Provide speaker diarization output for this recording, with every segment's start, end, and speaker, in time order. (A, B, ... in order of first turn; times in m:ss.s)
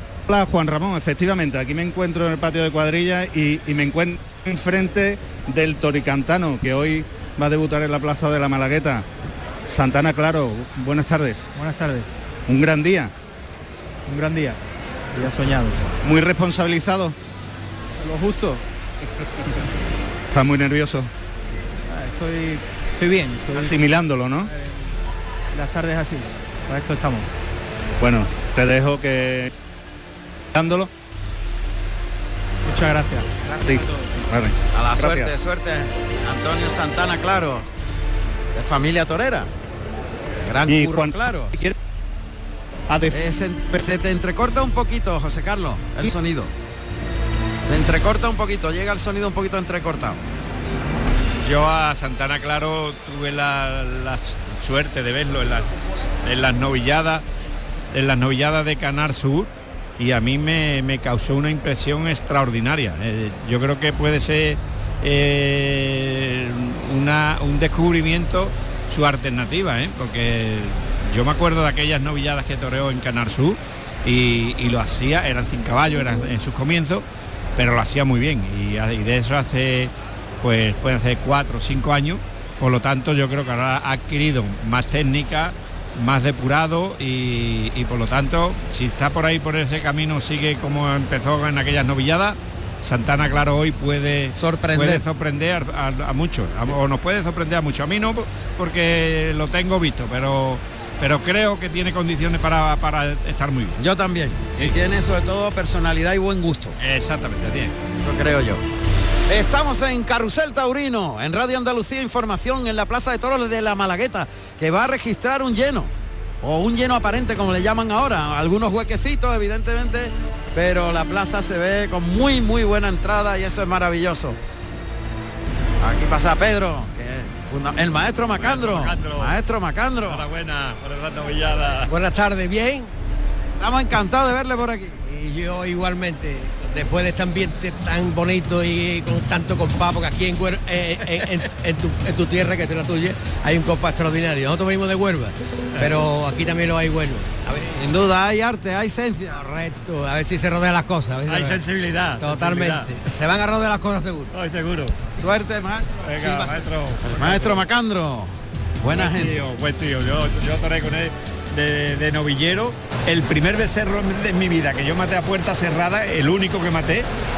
0:00.3-0:09.0 A
0:09.7-0:11.5 A
0:11.6-0:12.2 B
0:12.5-0:13.1 A
0:14.1-0:14.6 B
0:15.1-0:15.8 B
0:16.0-0:17.2 A
0:18.0-0:18.6 B
0:20.3-0:21.1 A
0:21.9-0:23.8 B
0:23.5-0:24.5 A
0:24.5-0:24.9 B
0:25.5-0:27.3 B
0:28.0-0:29.5 A
0:30.5-0:30.9 A
0:32.6-0:34.1 B
0:33.6-0:35.3 A
0:34.7-0:37.7 C
0:38.5-0:39.5 C
0:40.4-0:41.5 C
0:40.7-0:41.8 A
0:42.9-0:43.2 A
0:43.1-0:46.5 C
0:47.6-0:50.2 C
0:51.4-0:55.7 D
0:56.2-0:57.2 D
0:57.9-1:17.0 D
1:17.6-1:43.8 D
1:34.4-1:35.0 C
1:43.8-1:46.8 C
1:46.8-1:47.8 D
1:48.0-1:48.6 C
1:49.3-2:04.4 C
2:05.8-2:10.2 C
2:08.4-2:09.4 D
2:10.1-2:11.9 D
2:11.9-2:12.9 E
2:13.6-2:15.0 C
2:15.0-2:27.8 E
2:25.8-2:26.1 D
2:27.7-2:29.4 C
2:29.3-2:31.6 E
2:31.3-2:32.9 D
2:32.2-2:34.3 E
2:34.3-2:35.0 D
2:35.2-2:36.4 C
2:36.0-2:37.6 D
2:37.1-2:39.4 C
2:38.9-2:47.1 D